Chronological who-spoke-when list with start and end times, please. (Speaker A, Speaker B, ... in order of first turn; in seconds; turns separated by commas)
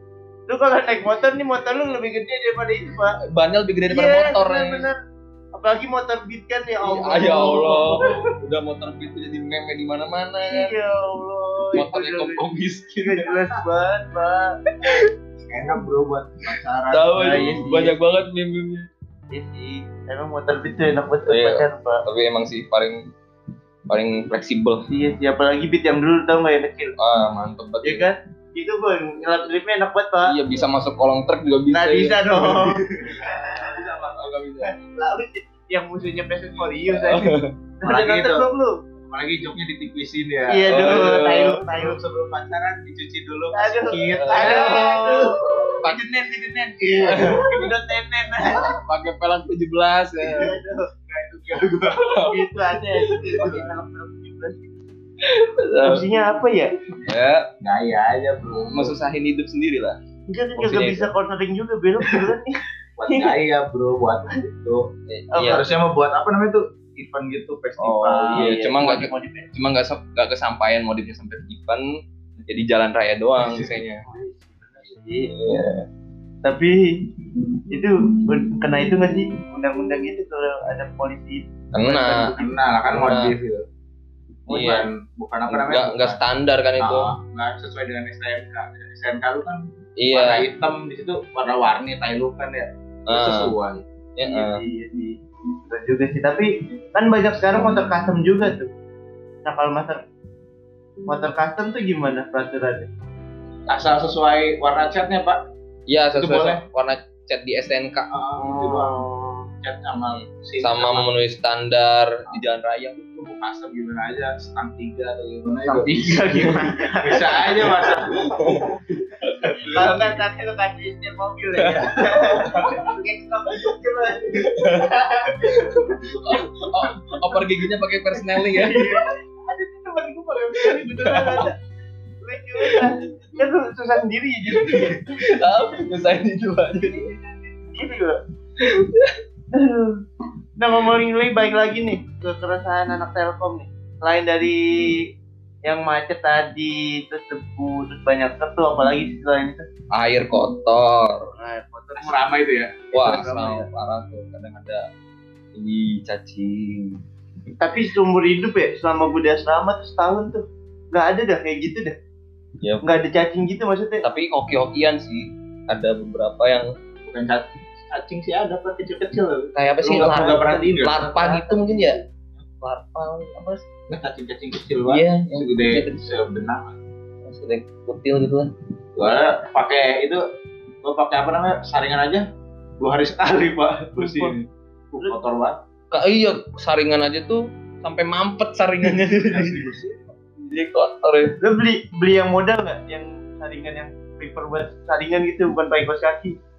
Speaker A: 0.5-3.2, Speaker B: 3.3-4.9, Speaker A: 3.9-5.0, Speaker A: 5.5-8.2, Speaker B: 6.8-10.7, Speaker C: 7.4-8.1, Speaker A: 10.5-12.4, Speaker B: 11.7-13.3, Speaker A: 13.0-14.6, Speaker C: 15.5-17.8, Speaker B: 16.9-18.9, Speaker A: 17.1-17.9, Speaker A: 19.3-22.0, Speaker B: 21.3-23.1, Speaker B: 23.9-24.9, Speaker A: 24.9-26.9, Speaker B: 27.0-28.1, Speaker A: 27.8-30.4, Speaker B: 30.3-32.7, Speaker A: 31.7-33.8, Speaker C: 33.2-34.2, Speaker B: 34.1-34.8, Speaker A: 34.6-38.7, Speaker B: 36.9-37.5, Speaker C: 37.8-38.5, Speaker C: 39.1-45.4, Speaker A: 40.5-42.0, Speaker B: 40.7-41.6, Speaker A: 43.5-46.4, Speaker B: 44.2-44.9, Speaker C: 46.8-47.7, Speaker B: 47.0-47.5, Speaker A: 47.0-48.8, Speaker B: 48.6-50.6, Speaker A: 50.2-50.9, Speaker C: 51.1-52.3, Speaker B: 52.0-52.4, Speaker A: 52.2-54.7, Speaker B: 53.1-53.4, Speaker C: 53.4-53.6, Speaker B: 55.2-56.0, Speaker A: 55.8-56.7, Speaker B: 57.1-57.5, Speaker C: 57.6-59.0, Speaker B: 58.6-60.0, Speaker A: 60.3-63.3, Speaker B: 60.6-61.1, Speaker C: 63.0-68.6, Speaker B: 65.1-65.7, Speaker A: 65.3-65.6, Speaker A: 67.8-69.5, Speaker B: 68.3-71.9, Speaker B: 72.5-74.0, Speaker A: 74.0-75.3, Speaker B: 75.3-75.8, Speaker A: 76.4-77.1, Speaker A: 77.7-82.5, Speaker B: 81.7-82.3, Speaker C: 82.2-83.7, Speaker B: 82.9-83.4, Speaker B: 84.5-84.9, Speaker C: 84.5-86.2, Speaker B: 85.5-87.1, Speaker C: 86.8-93.8, Speaker B: 90.0-90.5, Speaker B: 93.1-93.5, Speaker B: 94.2-94.6, Speaker A: 94.2-95.2, Speaker A: 95.7-98.7, Speaker A: 99.5-100.0, Speaker A: 101.1-102.9, Speaker C: 103.7-105.4, Speaker B: 105.9-108.1, Speaker C: 106.2-106.6, Speaker C: 108.1-109.1, Speaker A: 108.4-109.5, Speaker C: 109.6-111.1, Speaker B: 110.1-113.1, Speaker C: 113.1-118.3, Speaker A: 115.7-117.8, Speaker B: 118.3-120.0, Speaker A: 119.4-126.4, Speaker C: 121.7-122.9, Speaker B: 124.5-124.9, Speaker B: 125.4-129.1, Speaker A: 127.1-127.4, Speaker A: 128.2-131.6, Speaker B: 130.8-131.5, Speaker A: 132.2-135.1, Speaker B: 134.6-137.1, Speaker A: 136.8-138.2, Speaker B: 138.8-139.1, Speaker A: 139.5-140.0, Speaker A: 140.6-145.1, Speaker A: 145.6-149.7, Speaker B: 149.9-151.3, Speaker A: 151.4-152.2, Speaker C: 152.0-152.8, Speaker A: 152.9-153.7, Speaker B: 152.9-154.8, Speaker B: 155.6-157.0, Speaker A: 157.6-162.0, Speaker A: 162.8-164.0, Speaker B: 164.0-166.7, Speaker C: 167.0-171.1, Speaker B: 169.6-172.0, Speaker A: 170.0-172.0, Speaker B: 172.6-173.6, Speaker C: 173.9-176.8, Speaker B: 174.9-176.1, Speaker B: 177.3-178.5, Speaker C: 179.0-180.2, Speaker C: 180.8-182.3, Speaker C: 182.8-185.6, Speaker A: 184.0-184.3, Speaker B: 185.9-189.6, Speaker C: 188.9-190.0, Speaker B: 190.5-191.3, Speaker A: 191.4-196.3